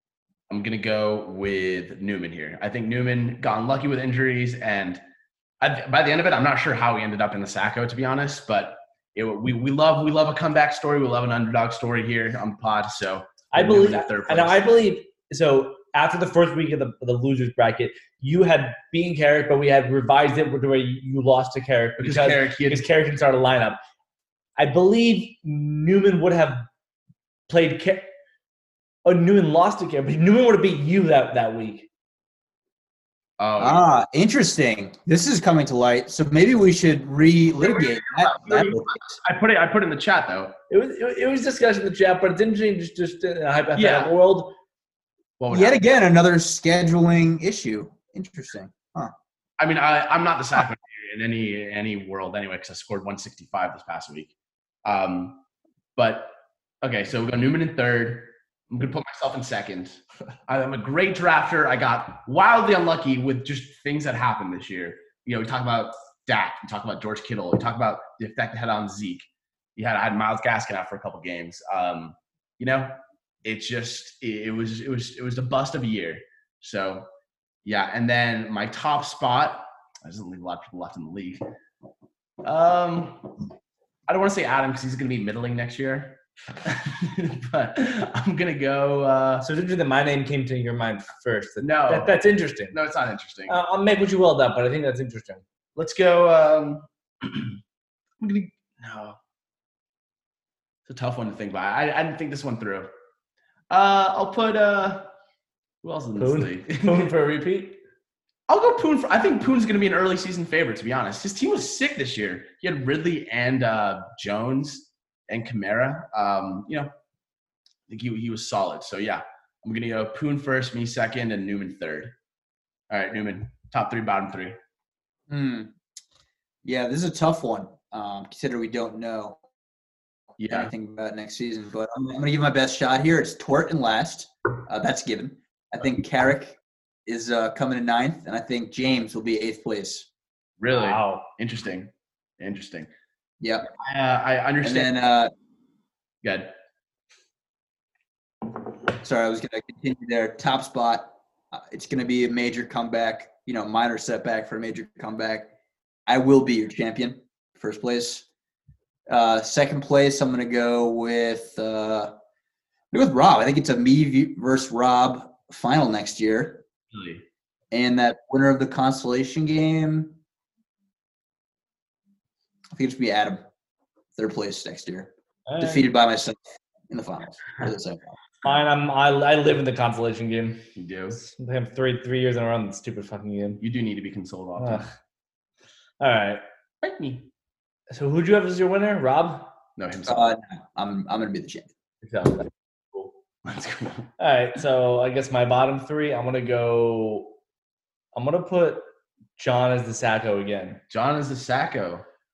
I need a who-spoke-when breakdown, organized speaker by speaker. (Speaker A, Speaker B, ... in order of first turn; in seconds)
Speaker A: 0.5-5.0, 5.6-14.8, 22.0-22.8, 33.4-33.9, 37.6-40.5, 43.8-44.1, 45.4-45.8, 49.6-54.3, 54.8-55.4, 56.0-77.1, 77.6-81.4, 82.4-83.4, 84.1-89.4, 91.6-93.6, 95.8-97.6, 98.2-99.2, 100.9-102.9, 103.7-105.1, 105.8-107.1, 108.5-116.9, 117.9-122.1, 122.9-124.5, 130.4-130.7, 140.6-142.9, 143.8-144.9, 146.2-146.5, 166.9-167.2, 180.7-181.2, 183.6-184.9, 186.8-187.3, 189.8-190.3, 192.0-194.1, 200.9-202.0
Speaker B: 13.5-23.8, 24.6-26.7, 27.5-28.1, 29.0-31.9, 40.7-44.5, 89.4-92.7, 93.5-95.4, 106.2-107.8, 140.7-141.3, 175.5-175.9, 178.4-183.6, 184.6-184.8, 186.0-186.4, 187.9-189.5, 194.2-197.3, 198.1-198.8, 199.4-200.8
Speaker C: 33.6-39.1, 45.5-49.1, 125.3-125.7, 126.6-129.4, 130.5-140.1, 143.4-143.7, 144.6-145.3, 149.0-155.5, 156.1-158.2, 159.1-162.2, 162.9-166.6, 167.7-170.2, 172.7-173.4, 174.1-178.1, 190.1-191.7